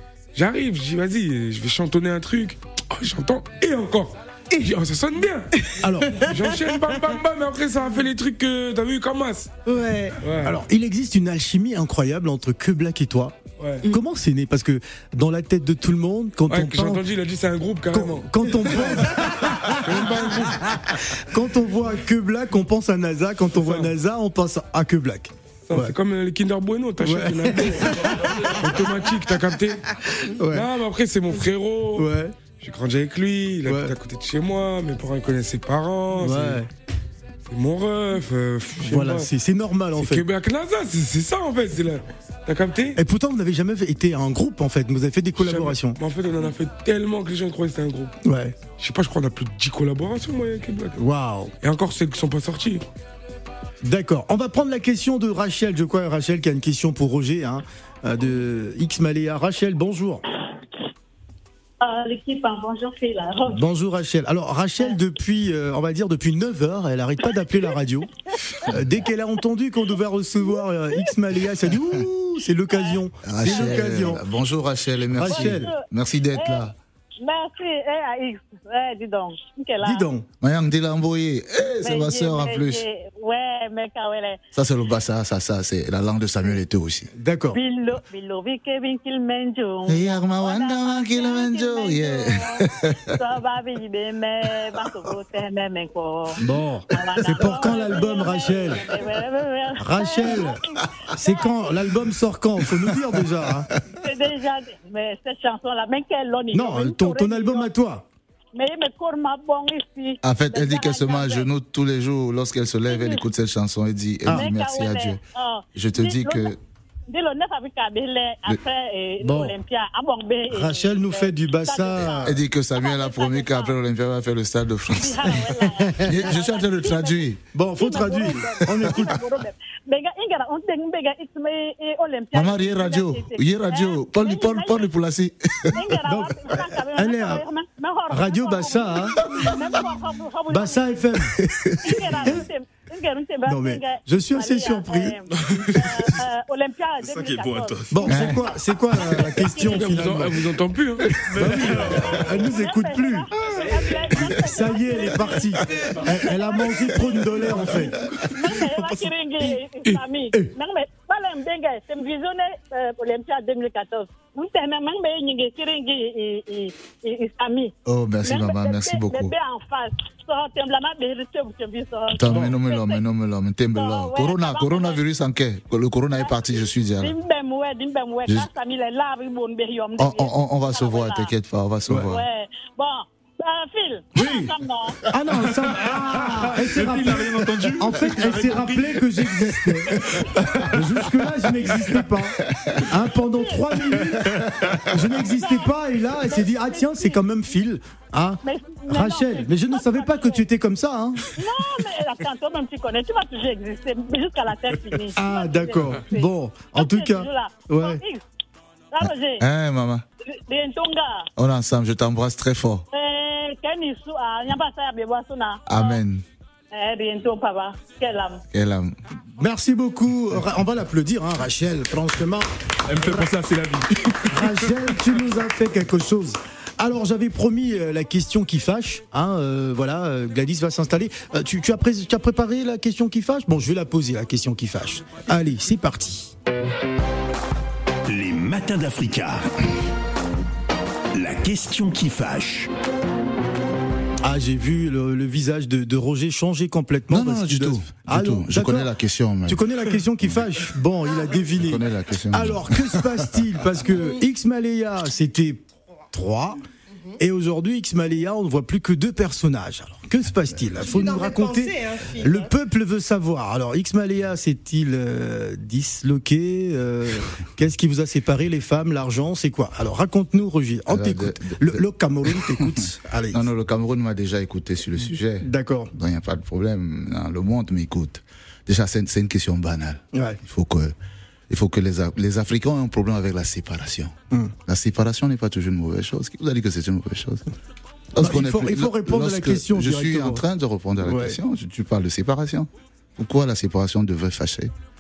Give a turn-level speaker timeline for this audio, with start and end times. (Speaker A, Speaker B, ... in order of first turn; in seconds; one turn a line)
Speaker A: 0.3-5.5
Speaker B: 5.8-6.3
Speaker A: 6.2-9.5
Speaker C: 9.7-10.2
Speaker A: 10.2-10.6
Speaker B: 10.4-17.0
Speaker A: 16.5-19.0
Speaker B: 17.9-25.9
Speaker A: 19.8-20.8
Speaker A: 23.5-23.9
Speaker A: 25.7-29.9
Speaker B: 27.0-28.8
Speaker B: 30.2-30.7
Speaker A: 30.5-36.6
Speaker B: 32.0-32.4
Speaker B: 33.7-33.9
Speaker B: 36.1-36.7
Speaker A: 37.5-39.3
Speaker B: 38.8-40.3
Speaker A: 40.0-43.0
Speaker B: 43.0-46.0
Speaker A: 45.4-48.1
Speaker B: 48.2-48.6
Speaker A: 48.8-51.0
Speaker B: 51.0-51.5
Speaker A: 51.6-52.9
Speaker B: 53.8-60.2
Speaker D: 61.8-63.7
Speaker B: 63.5-68.1
Speaker B: 68.7-74.2
Speaker D: 72.7-74.2
Speaker E: 73.2-76.7
Speaker B: 75.1-75.7
Speaker D: 75.2-76.7
Speaker D: 77.2-80.1
Speaker B: 79.8-80.3
Speaker E: 80.4-82.8
Speaker D: 81.8-84.4
Speaker E: 84.5-87.1
Speaker B: 87.2-87.6
Speaker D: 87.5-101.8
Speaker E: 89.9-93.0
Speaker B: 96.4-98.9
Speaker B: 99.8-100.6
Speaker B: 101.2-103.7
Speaker D: 103.9-107.7
Speaker B: 106.5-108.0
Speaker D: 108.5-111.5
Speaker E: 110.2-115.2
Speaker D: 112.9-113.3
Speaker D: 114.3-116.6
Speaker E: 115.8-116.5
Speaker D: 117.1-123.8
Speaker B: 119.2-119.5
Speaker B: 120.5-122.3
Speaker E: 122.2-127.4
Speaker D: 124.9-134.9
Speaker B: 125.5-126.1
Speaker B: 127.5-129.2
Speaker E: 128.8-129.2
Speaker E: 132.3-136.0
Speaker D: 135.7-141.0
Speaker B: 136.0-137.4
Speaker B: 138.1-139.2
Speaker B: 140.5-141.3
Speaker E: 141.3-142.4
Speaker D: 141.8-147.8
Speaker B: 143.5-145.2
Speaker F: 145.4-145.7
Speaker F: 147.0-148.3
Speaker B: 147.9-150.5
Speaker E: 148.1-148.4
Speaker D: 149.5-150.2
Speaker A: 149.6-151.1
Speaker F: 151.1-152.4
Speaker B: 151.3-158.0
Speaker D: 151.4-173.0
Speaker B: 158.6-159.5
Speaker E: 167.9-169.3
Speaker E: 172.1-177.2
Speaker B: 172.3-172.6
Speaker D: 173.7-175.1
Speaker D: 176.2-181.3
Speaker E: 180.0-182.2
Speaker D: 182.0-185.0
Speaker B: 184.2-184.5
Speaker B: 185.1-190.1
Speaker F: 185.6-189.8
Speaker E: 190.0-190.8
Speaker B: 190.7-201.3
Speaker E: 192.6-192.9
Speaker D: 193.1-194.1
Speaker D: 195.2-197.3
Speaker D: 198.4-200.4
Speaker D: 201.4-208.2
Speaker B: 205.2-208.0
Speaker D: 208.9-209.4
Speaker E: 209.0-210.1
Speaker D: 210.3-211.3
Speaker E: 211.4-212.8
Speaker D: 212.9-216.0
Speaker E: 215.7-216.2
Speaker D: 216.7-218.4
Speaker E: 218.5-219.0
Speaker B: 219.4-223.3
Speaker F: 222.9-224.6
Speaker B: 224.3-236.3
Speaker G: 238.1-239.5
Speaker G: 241.1-242.7
Speaker B: 244.2-248.9
Speaker E: 247.1-250.5
Speaker B: 249.5-256.6
Speaker E: 251.5-253.2
Speaker B: 257.2-273.5
Speaker C: 260.8-262.5
Speaker E: 270.9-280.9
Speaker B: 275.0-275.9
Speaker B: 280.1-280.4
Speaker E: 281.5-284.2
Speaker E: 284.7-287.4
Speaker E: 288.1-294.7
Speaker B: 288.2-290.4
Speaker B: 291.0-291.4